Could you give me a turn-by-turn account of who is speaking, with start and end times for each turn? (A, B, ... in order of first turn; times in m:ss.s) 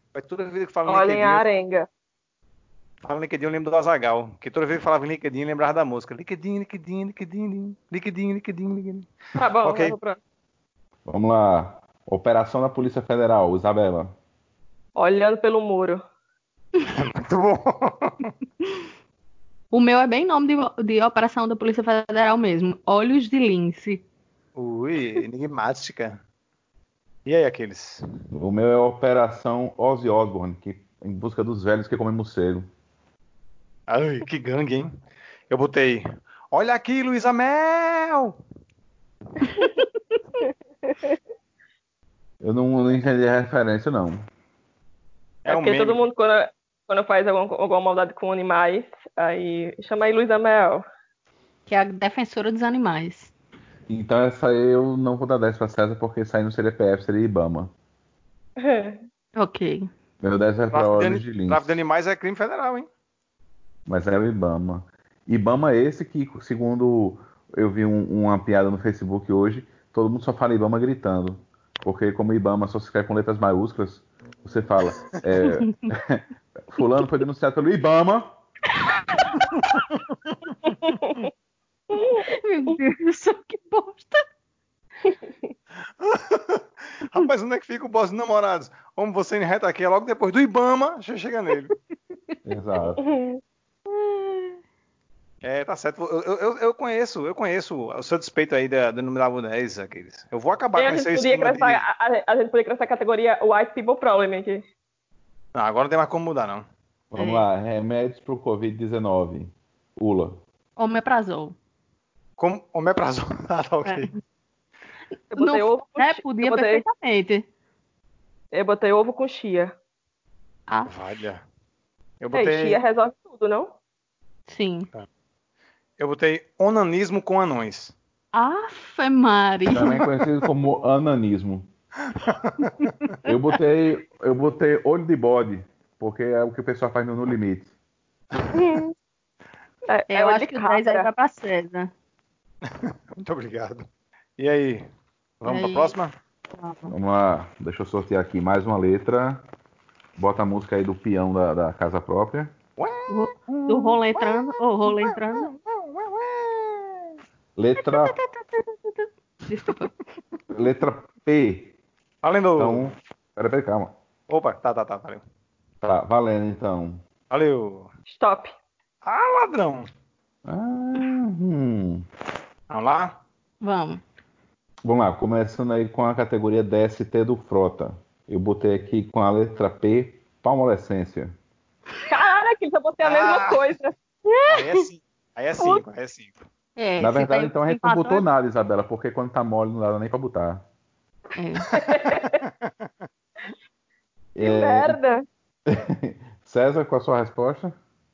0:00.1-0:01.4 A
0:00.9-0:01.9 B
0:03.0-0:09.1 A
0:09.4-0:10.2 B
0:09.6-0:10.0 A
0:11.1-0:14.1 C
0:15.0-0:16.0 B
0:16.9-0:18.3 A
0:19.7-0:24.0 D
0:24.6-0:26.2 A
0:27.2-0:28.0 A
0:28.3-0:32.7 C
0:33.9-0:34.9 A
0:35.5-0:38.4 A
0:42.4-0:44.2 C
0:45.4-0:46.0 A
0:45.4-0:50.8 B
0:51.7-0:53.3 D
0:53.9-0:57.7 C
0:58.6-0:59.0 B
0:59.4-0:59.9 D
1:00.2-1:01.8 C
1:00.7-1:02.9 A
1:03.9-1:18.3 C
1:20.7-1:21.3 B
1:21.9-1:22.8 B
1:22.3-1:24.2 D
1:26.0-1:31.7 A
1:32.5-1:33.0 C
1:33.0-1:33.4 B
1:33.9-1:34.6 D
1:35.4-1:41.8 A
1:40.8-1:44.6 B
1:45.6-1:46.6 A
1:47.1-1:50.4 C
1:47.2-1:47.5 D
1:50.8-1:51.6 D
1:52.4-1:54.1 A
1:53.9-1:54.2 D
1:55.3-1:56.8 B
1:55.4-1:57.5 D
1:58.5-1:59.7 B
2:00.7-2:01.0 D
2:00.9-2:01.4 A
2:02.2-2:02.8 A
2:02.3-2:03.7 B
2:04.5-2:04.9 D
2:06.0-2:08.0 A
2:08.3-2:10.0 D
2:09.7-2:11.7 C
2:12.2-2:12.7 A
2:13.2-2:17.7 C
2:18.5-2:18.9 B
2:19.9-2:21.1 B
2:20.1-2:21.9 D
2:22.7-2:23.9 A
2:24.4-2:24.9 A
2:25.4-2:26.1 A
2:25.5-2:25.9 D
2:26.6-2:26.9 D
2:26.9-2:29.4 C
2:30.2-2:32.5 C
2:32.8-2:37.1 A
2:33.1-2:35.5 D
2:37.6-2:38.2 C
2:37.8-2:39.9 D
2:40.5-2:41.7 C
2:42.2-2:42.9 A
2:42.6-2:43.9 C
2:44.3-2:45.2 A
2:45.8-2:47.0 C
2:47.3-2:47.9 A
2:48.1-2:48.5 B
2:49.0-2:49.9 A
2:50.4-2:52.1 C
2:52.7-2:53.2 A
2:53.6-2:54.0 D
2:54.8-3:01.4 C
3:02.1-3:03.9 B
3:03.0-3:03.7 A
3:04.3-3:04.8 D
3:04.5-3:06.4 A
3:06.8-3:08.2 D
3:07.0-3:10.6 C
3:11.4-3:11.6 D
3:11.7-3:12.4 B
3:11.7-3:12.8 A
3:14.4-3:15.0 C
3:14.4-3:15.2 B
3:15.7-3:17.8 C